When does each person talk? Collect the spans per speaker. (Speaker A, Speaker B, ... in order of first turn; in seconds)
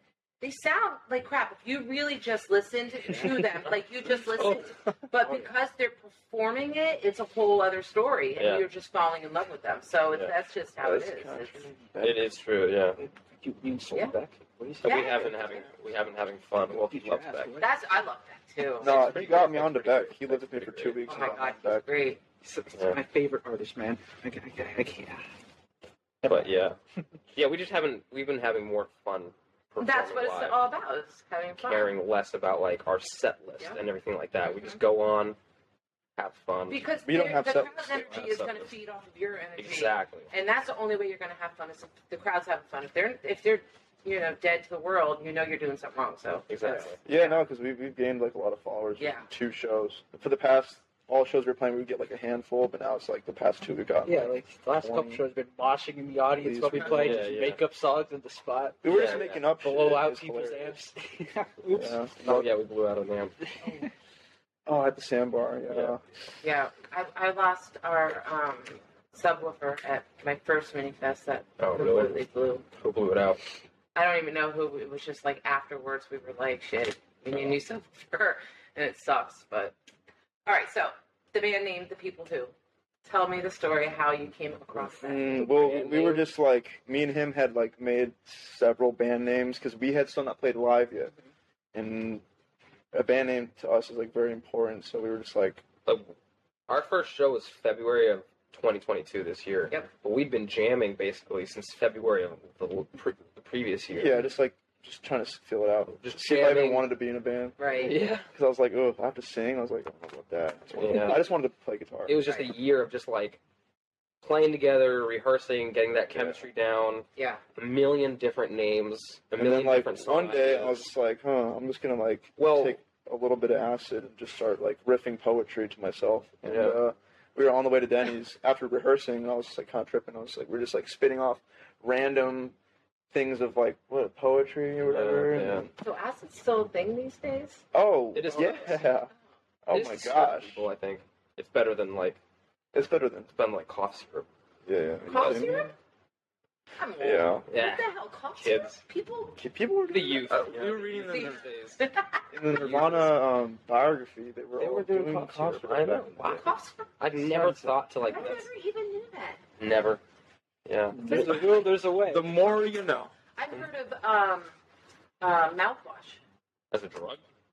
Speaker A: 0.4-11.7, 14.8-15.7, 17.6-19.0, 21.1-22.2, 29.8-31.9, 34.4-34.8, 36.7-47.4, 49.0-49.3, 66.4-72.7, 74.0-79.8, 80.5-82.5, 83.0-86.2, 107.6-108.0, 112.2-112.5, 117.2-117.4, 135.8-137.6, 138.3-138.6, 145.1-145.7, 146.8-149.4, 151.0-152.2, 156.2-156.9, 158.1-159.4, 161.1-161.4, 163.4-164.5, 165.2-166.2
Speaker B: 4.2-4.7, 8.4-8.7, 12.0-13.0, 14.8-17.6, 18.8-21.1, 22.8-23.0, 26.2-26.8, 27.3-30.6, 31.6-35.4, 36.2-36.9, 37.8-38.7, 39.6-40.3, 46.5-47.0, 56.9-57.6, 58.9-59.4, 62.2-63.4, 65.7-66.0, 71.6-72.2, 72.7-73.4, 77.3-77.6, 85.5-86.2, 95.9-96.1, 96.7-104.2, 106.0-106.9, 107.8-108.3, 110.8-111.3, 112.1-113.4, 114.2-120.9, 122.4-122.8, 126.5-126.8, 134.8-135.7, 138.2-138.8, 139.7-142.2, 143.3-144.3, 145.2-145.6, 147.5-148.8, 149.9-151.8, 152.5-153.1, 154.6-156.4, 157.0-158.5, 159.6-160.0, 160.7-161.0, 166.7-167.2
Speaker C: 5.2-5.5, 10.8-12.3, 18.8-21.8, 37.1-38.0, 47.0-55.2, 56.4-57.3, 58.8-60.8, 61.7-62.5, 64.7-66.0, 85.0-91.1, 91.7-92.2, 92.9-95.6, 103.9-112.2, 116.1-116.4, 119.4-132.6, 133.1-135.7, 137.7-139.1, 139.7-140.7, 142.7-143.3, 144.7-145.7, 147.0-147.4, 149.4-151.5, 152.3-156.4, 160.9-163.1
Speaker D: 13.0-15.6, 16.7-17.7, 22.4-25.3, 26.2-26.5, 54.0-62.0, 154.7-155.2, 157.3-157.7, 161.0-162.3